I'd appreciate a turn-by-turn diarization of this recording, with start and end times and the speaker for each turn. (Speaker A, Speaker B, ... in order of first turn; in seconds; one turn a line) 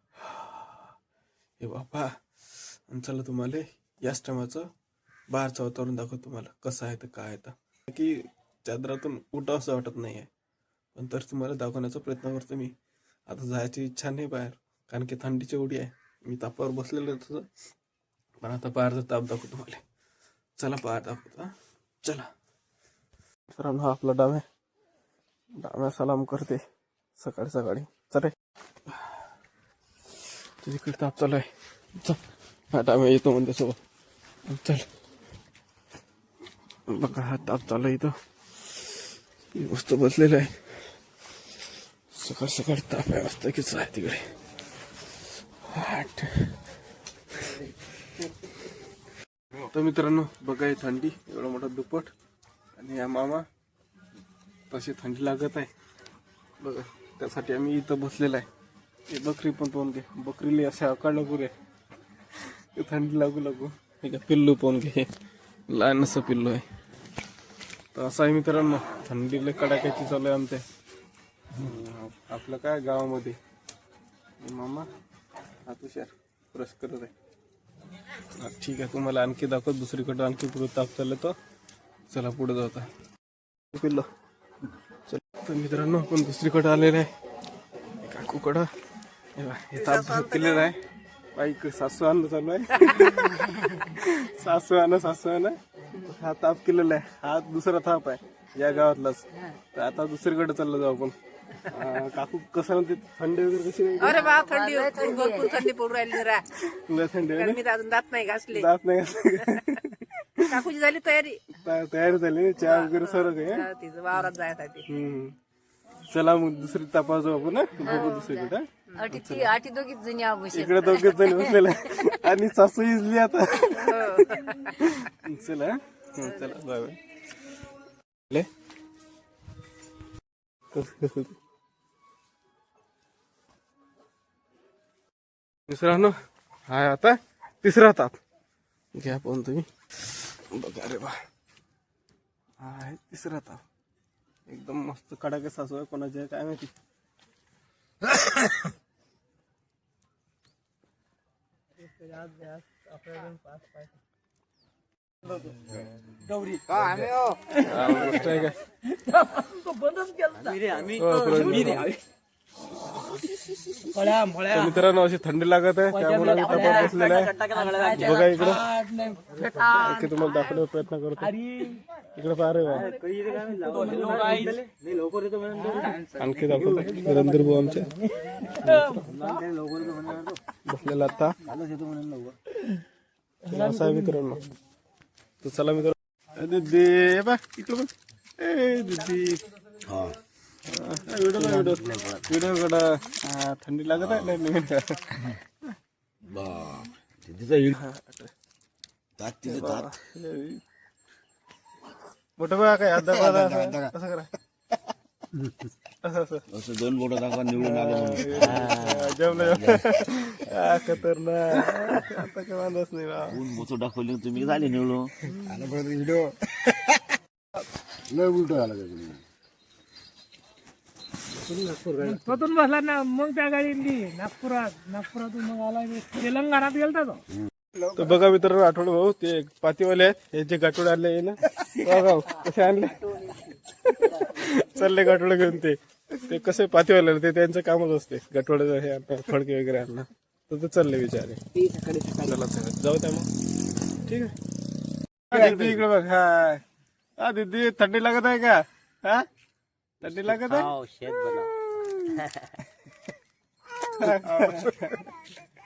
Speaker A: 0.2-0.9
Speaker A: 1.6-2.1
Speaker A: 2.9-4.7
Speaker A: 5.3-10.3
Speaker A: 10.9-12.7
Speaker A: 13.3-17.5
Speaker A: 18.4-19.8
Speaker A: 20.6-21.5
Speaker A: 22.0-22.3
Speaker A: 23.5-24.4
Speaker A: 25.6-26.6
Speaker A: 27.2-28.3
Speaker A: 30.6-31.5
Speaker A: 32.7-33.8
Speaker A: 34.5-34.9
Speaker A: 36.9-38.1
Speaker A: 39.5-40.7
Speaker A: 42.1-44.2
Speaker A: 45.7-46.6
Speaker A: 49.6-52.1
Speaker A: 52.8-53.4
Speaker A: 54.7-55.7
Speaker A: 56.6-58.5
Speaker A: 59.1-61.5
Speaker A: 62.8-65.1
Speaker A: 65.7-66.7
Speaker A: 68.0-70.6
Speaker A: 71.6-73.4
Speaker A: 74.4-74.9
Speaker A: 75.7-77.1
Speaker A: 78.4-81.3
Speaker A: 82.1-82.9
Speaker A: 83.7-84.1
Speaker A: 85.1-87.1
Speaker A: 88.0-88.7
Speaker A: 89.4-90.8
Speaker B: 89.8-90.7
Speaker A: 91.3-104.3
Speaker C: 104.0-105.7
Speaker B: 104.0-106.5
Speaker A: 106.7-107.6
Speaker B: 107.3-108.7
Speaker A: 108.5-110.5
Speaker B: 110.5-111.4
Speaker A: 111.6-113.7
Speaker B: 112.6-114.9
Speaker A: 114.9-115.3
Speaker A: 116.1-119.5
Speaker C: 117.8-122.0
Speaker B: 117.8-118.3
Speaker A: 120.5-124.1
Speaker B: 123.8-124.8
Speaker A: 124.8-127.0
Speaker B: 126.2-126.5
Speaker A: 130.7-131.4
Speaker A: 135.7-136.2
Speaker A: 136.7-138.2
Speaker A: 138.9-141.2
Speaker A: 142.6-143.6
Speaker A: 144.5-146.7
Speaker D: 152.0-153.8
Speaker D: 156.3-157.2
Speaker A: 157.6-158.6
Speaker D: 158.9-161.9
Speaker E: 160.5-160.9
Speaker A: 160.9-161.9
Speaker D: 163.9-164.7
Speaker A: 164.4-168.7
Speaker D: 166.0-169.7
Speaker E: 167.4-168.0
Speaker A: 169.6-171.3
Speaker D: 171.2-171.8
Speaker A: 172.1-172.9
Speaker E: 172.7-176.9
Speaker D: 173.1-174.7
Speaker D: 175.6-176.0
Speaker A: 176.1-179.1
Speaker D: 176.8-179.4
Speaker E: 179.1-180.4
Speaker A: 180.7-181.4
Speaker E: 181.5-182.3
Speaker A: 183.5-184.5
Speaker D: 183.5-184.0
Speaker A: 185.4-187.9
Speaker A: 188.4-189.4
Speaker F: 189.9-190.2
Speaker A: 190.7-195.3
Speaker F: 191.4-192.3
Speaker F: 193.9-194.4
Speaker F: 196.2-197.8
Speaker A: 197.7-198.3
Speaker F: 199.2-199.9
Speaker A: 199.5-200.6
Speaker A: 202.4-204.3
Speaker A: 206.0-206.4
Speaker F: 206.5-210.0
Speaker A: 207.6-213.4
Speaker F: 213.3-215.1
Speaker E: 215.5-216.3
Speaker E: 218.1-219.2
Speaker E: 221.7-222.2
Speaker D: 221.9-227.2
Speaker A: 227.9-241.4
Speaker C: 241.6-242.1
Speaker A: 242.0-243.3
Speaker A: 244.1-244.3
Speaker A: 245.3-246.6
Speaker A: 247.2-249.3
Speaker A: 250.0-250.7
Speaker A: 253.9-255.1